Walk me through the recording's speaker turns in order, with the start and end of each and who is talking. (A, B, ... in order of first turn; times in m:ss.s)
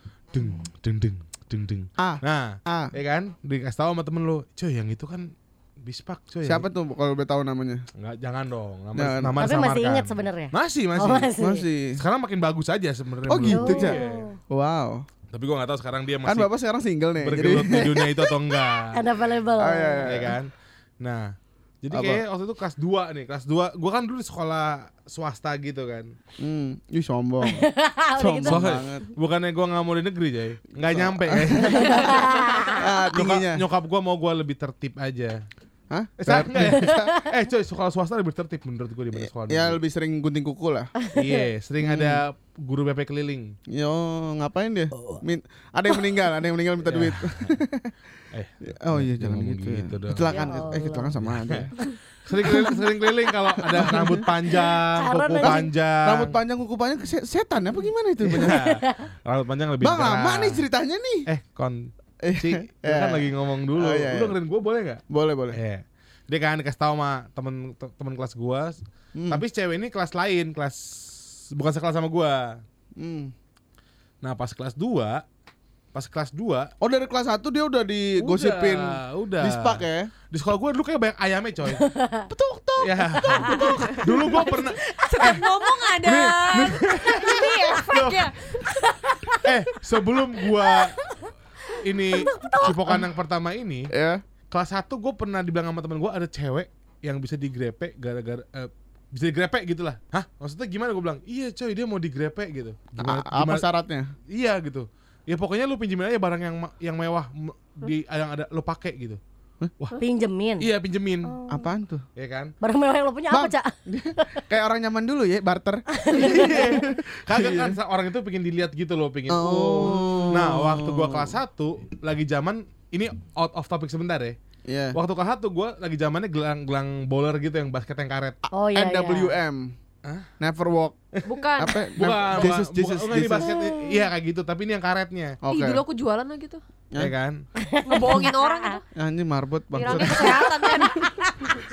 0:00.3-0:06.7 A
0:02.0-0:02.9 B
0:06.4-0:07.8 B
0:08.0-0:11.3 A
0:09.0-0:09.4 B
0:09.4-0:11.6 C
0:11.4-0:12.0 B
0:12.0-0:14.3 A
0:13.3-0:15.0 B
0:13.5-0:14.4 C
0:15.3-0:16.5 A
0:16.2-0:18.2 B
0:17.2-0:19.1 A
0:18.4-0:20.3 C
0:19.6-0:20.4 B
0:20.0-0:26.1 A
0:21.9-0:22.2 B
0:26.4-0:29.1 B
0:27.4-0:28.8 C
0:28.5-0:32.2 A
0:30.9-0:32.2 B
0:31.6-0:32.9 C
0:32.7-0:33.6 B
0:33.1-0:35.4 A
0:35.9-0:37.1 B
0:36.2-0:39.8 A
0:36.6-0:37.1 C
0:39.2-0:40.9 B
0:41.0-0:41.5 C
0:41.1-0:43.6 A
0:41.8-0:42.2 B
0:43.7-0:47.9 B
0:46.8-0:47.6 A
0:48.3-0:50.3 A
0:48.7-0:51.7 B
0:50.3-0:51.1 C
0:51.2-0:56.4 A
0:52.5-0:52.7 B
0:53.7-0:54.2 B
0:54.5-0:55.7 C
0:55.4-0:58.6 B
0:58.3-0:59.1 C
0:58.4-1:00.6 A
0:59.8-1:01.3 B
1:01.3-1:12.6 A
1:02.2-1:04.4 B
1:05.1-1:05.6 B
1:09.2-1:09.4 B
1:13.0-1:13.3 B
1:14.2-1:15.2 A
1:15.9-1:16.7 A
1:16.8-1:20.1 B
1:18.2-1:21.9 A
1:21.8-1:22.3 C
1:22.3-1:24.3 B
1:22.8-1:25.4 A
1:23.3-1:25.4 C
1:24.4-1:28.7 D
1:26.0-1:27.4 B
1:26.9-1:28.2 A
1:28.7-1:29.5 C
1:29.4-1:31.0 A
1:30.6-1:30.9 C
1:31.8-1:33.9 A
1:32.1-1:33.0 C
1:33.9-1:34.2 B
1:34.5-1:43.7 A
1:43.0-1:44.1 B
1:44.3-1:49.2 A
1:50.0-1:50.7 C
1:50.6-1:51.4 A
1:51.2-1:51.7 C
1:51.5-1:52.1 B
1:52.2-1:52.5 A
1:52.6-1:54.4 C
1:53.3-1:57.8 B
1:55.9-1:56.8 C
1:56.1-2:04.4 A
1:59.3-2:01.4 B
2:04.7-2:05.0 B
2:04.9-2:08.4 A
2:08.5-2:09.4 C
2:08.7-2:09.8 B
2:10.4-2:11.0 B
2:11.2-2:11.8 D
2:11.6-2:13.5 B
2:12.0-2:15.4 A
2:13.4-2:14.1 C
2:15.4-2:15.8 B
2:15.5-2:16.6 D
2:17.0-2:17.4 A
2:17.6-2:18.8 C
2:17.8-2:18.8 D
2:19.0-2:20.8 B
2:19.7-2:21.1 D
2:20.7-2:21.5 C